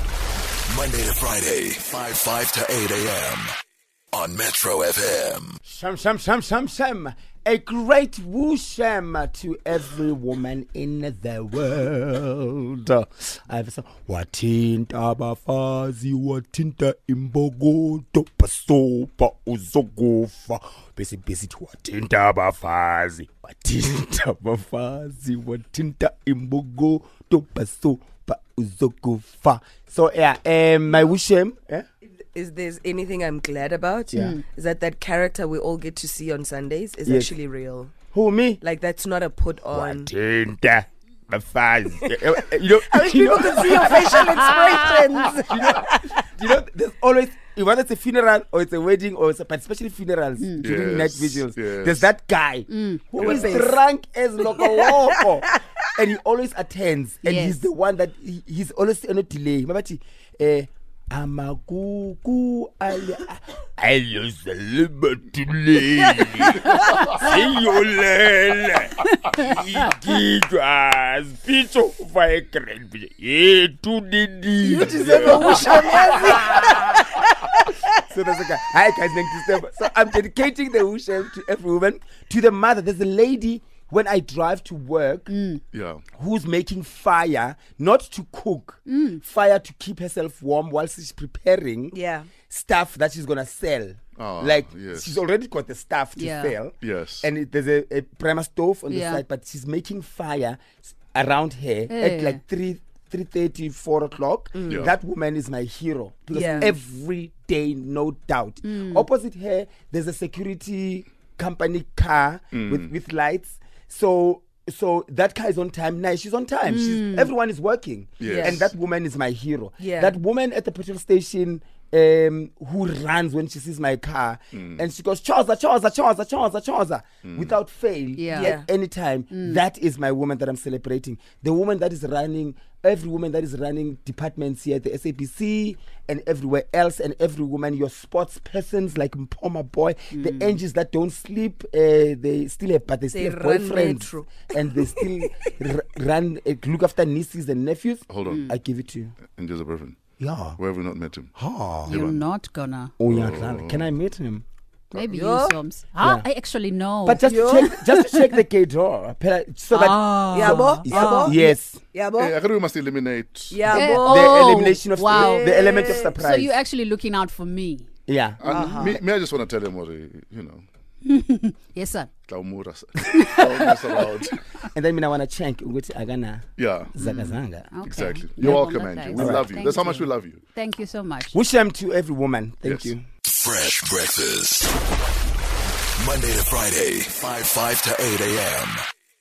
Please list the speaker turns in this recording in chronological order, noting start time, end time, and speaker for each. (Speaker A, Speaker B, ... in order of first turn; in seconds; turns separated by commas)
Speaker A: 0.7-3.5, Speaker A: 4.1-5.6, Speaker B: 5.6-31.9, Speaker C: 32.2-37.9, Speaker B: 34.1-34.4, Speaker D: 34.2-34.4, Speaker B: 37.0-37.3, Speaker B: 38.1-38.6, Speaker C: 38.6-40.1, Speaker B: 39.7-44.4, Speaker C: 42.9-46.0, Speaker B: 45.5-77.2, Speaker D: 50.4-50.7, Speaker E: 50.6-52.1, Speaker D: 52.7-53.6, Speaker C: 53.2-53.8, Speaker E: 53.2-53.6, Speaker C: 54.6-55.0, Speaker D: 57.3-57.6, Speaker C: 74.6-77.0, Speaker B: 78.1-85.3, Speaker D: 85.3-85.6, Speaker E: 85.7-86.0, Speaker B: 86.2-92.0, Speaker D: 88.9-89.2, Speaker C: 91.9-92.3, Speaker B: 92.5-149.2, Speaker E: 94.2-95.2, Speaker D: 96.2-96.6, Speaker E: 96.8-97.3, Speaker D: 98.9-99.2, Speaker D: 101.9-102.4, Speaker C: 104.5-104.9, Speaker C: 106.3-106.7, Speaker D: 106.4-106.7, Speaker D: 108.6-109.1, Speaker E: 112.5-112.9, Speaker D: 116.7-117.3, Speaker E: 118.2-118.7, Speaker C: 118.2-118.7, Speaker C: 119.8-120.2, Speaker E: 124.5-124.8, Speaker E: 127.3-127.6, Speaker D: 128.2-128.6, Speaker C: 128.3-128.7, Speaker D: 129.3-129.6, Speaker D: 140.2-140.6, Speaker C: 143.1-144.5, Speaker E: 148.1-148.5, Speaker D: 148.3-148.5, Speaker E: 149.3-150.0, Speaker B: 150.2-150.6, Speaker E: 150.6-151.3, Speaker B: 151.3-152.0, Speaker D: 151.9-152.9, Speaker E: 151.9-152.2, Speaker B: 153.0-154.4, Speaker E: 153.1-153.9, Speaker D: 154.9-158.3, Speaker C: 154.9-155.6, Speaker B: 156.0-156.3, Speaker B: 157.1-161.8, Speaker C: 157.2-157.8, Speaker D: 159.7-161.5, Speaker C: 160.3-161.4, Speaker C: 161.9-162.4, Speaker E: 162.2-163.8, Speaker C: 163.5-166.2, Speaker D: 163.7-167.9, Speaker B: 164.0-166.6, Speaker B: 168.1-169.0, Speaker E: 168.4-170.7, Speaker C: 168.5-169.0, Speaker D: 171.1-172.1, Speaker E: 172.3-174.4, Speaker D: 173.1-174.3, Speaker B: 174.8-177.7, Speaker E: 176.6-176.9, Speaker D: 177.0-181.4, Speaker E: 177.8-180.4, Speaker B: 178.4-179.5, Speaker B: 181.3-183.0, Speaker E: 182.6-182.9, Speaker A: 183.3-184.7, Speaker A: 186.0-188.8